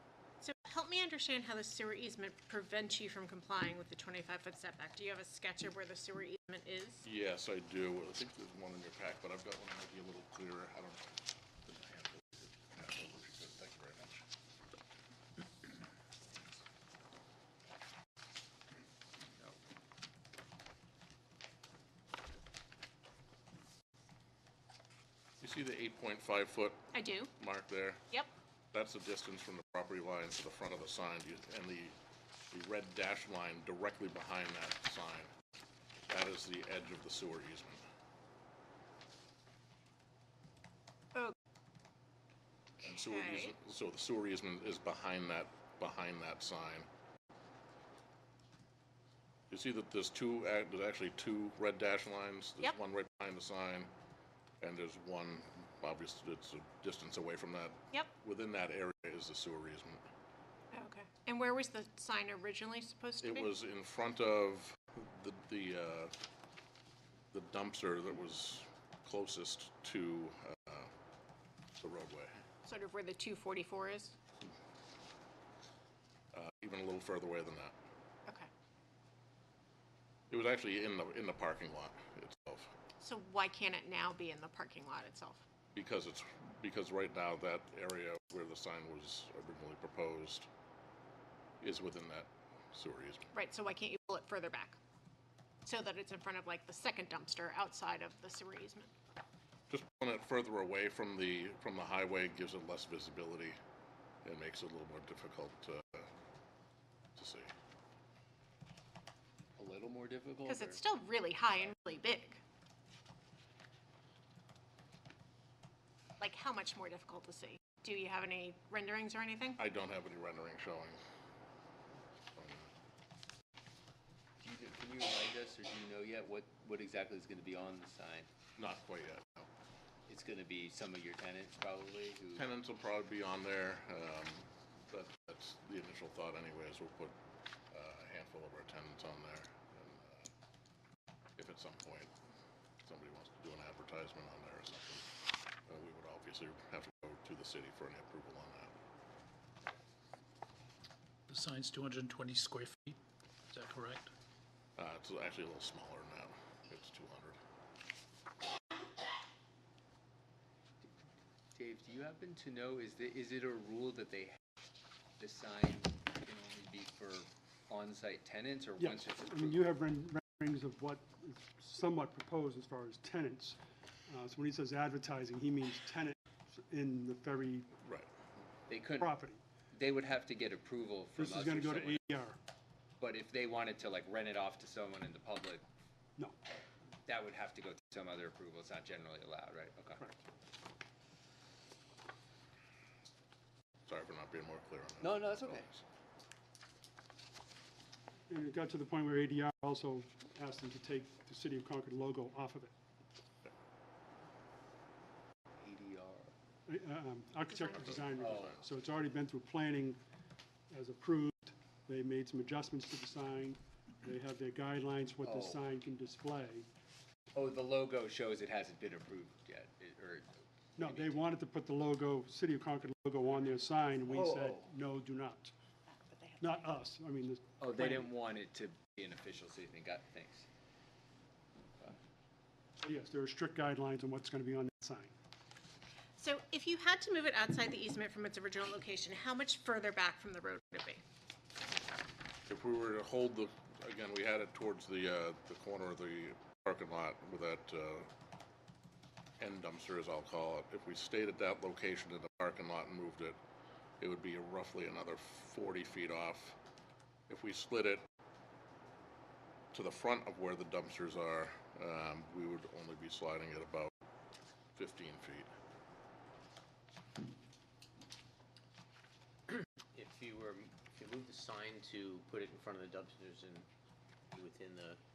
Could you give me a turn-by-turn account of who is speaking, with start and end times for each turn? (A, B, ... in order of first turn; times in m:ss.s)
0:00.4-0:07.0 A
0:07.0-0:14.3 B
0:25.4-0:28.0 B
0:26.9-0:27.3 A
0:28.7-0:32.0 B
0:32.5-0:35.3 B
0:36.1-0:37.8 B
0:42.8-0:43.5 A
0:42.8-0:46.9 B
0:49.5-0:53.9 B
0:54.6-1:00.0 B
1:00.7-1:03.5 A
1:03.2-1:06.1 B
1:07.3-1:10.9 B
1:11.8-1:12.4 B
1:12.6-1:14.2 A
1:16.3-1:17.8 B
1:20.3-1:22.7 B
1:23.0-1:25.4 A
1:25.7-1:30.5 B
1:31.6-1:33.3 B
1:33.3-1:34.8 A
1:35.6-1:38.9 A
1:39.7-1:43.6 B
1:44.2-1:46.1 B
1:47.2-1:47.5 B
1:49.6-1:50.8 C
1:50.5-1:52.4 A
1:56.2-1:59.6 A
1:59.6-2:01.0 B
2:02.4-2:02.7 B
2:04.4-2:08.3 C
2:08.6-2:09.5 B
2:10.1-2:12.4 C
2:12.4-2:17.2 B
2:17.7-2:20.3 B
2:21.4-2:22.1 B
2:22.8-2:25.1 B
2:25.7-2:28.8 B
2:31.3-2:33.0 D
2:33.5-2:34.1 D
2:34.8-2:37.4 B
2:41.5-2:44.4 C
2:45.2-2:49.6 C
2:48.8-2:57.7 E
2:57.8-2:58.1 B
2:58.7-2:59.2 C
2:59.0-2:59.4 E
2:59.7-3:02.0 C
3:01.2-3:02.4 E
3:03.0-3:05.7 C
3:07.0-3:10.1 C
3:13.9-3:15.8 B
3:15.0-3:15.7 C
3:18.3-3:22.7 E
3:25.6-3:26.3 C
3:26.7-3:30.0 E
3:27.5-3:28.1 A
3:28.1-3:28.4 B
3:28.2-3:28.6 C
3:30.7-3:36.7 E
3:35.2-3:35.6 C
3:37.3-3:41.1 C
3:40.8-3:45.5 E
3:44.1-3:44.7 C
3:45.9-3:46.6 A
3:46.4-3:48.1 E
3:47.6-3:50.5 C
3:52.8-3:55.1 E
3:56.2-4:01.0 A
4:02.5-4:08.1 B
4:09.4-4:13.4 B
4:14.0-4:16.6 B
4:17.3-4:18.0 B
4:19.7-4:23.9 B
4:24.8-4:25.5 B
4:29.9-4:33.7 F
4:34.3-4:35.0 F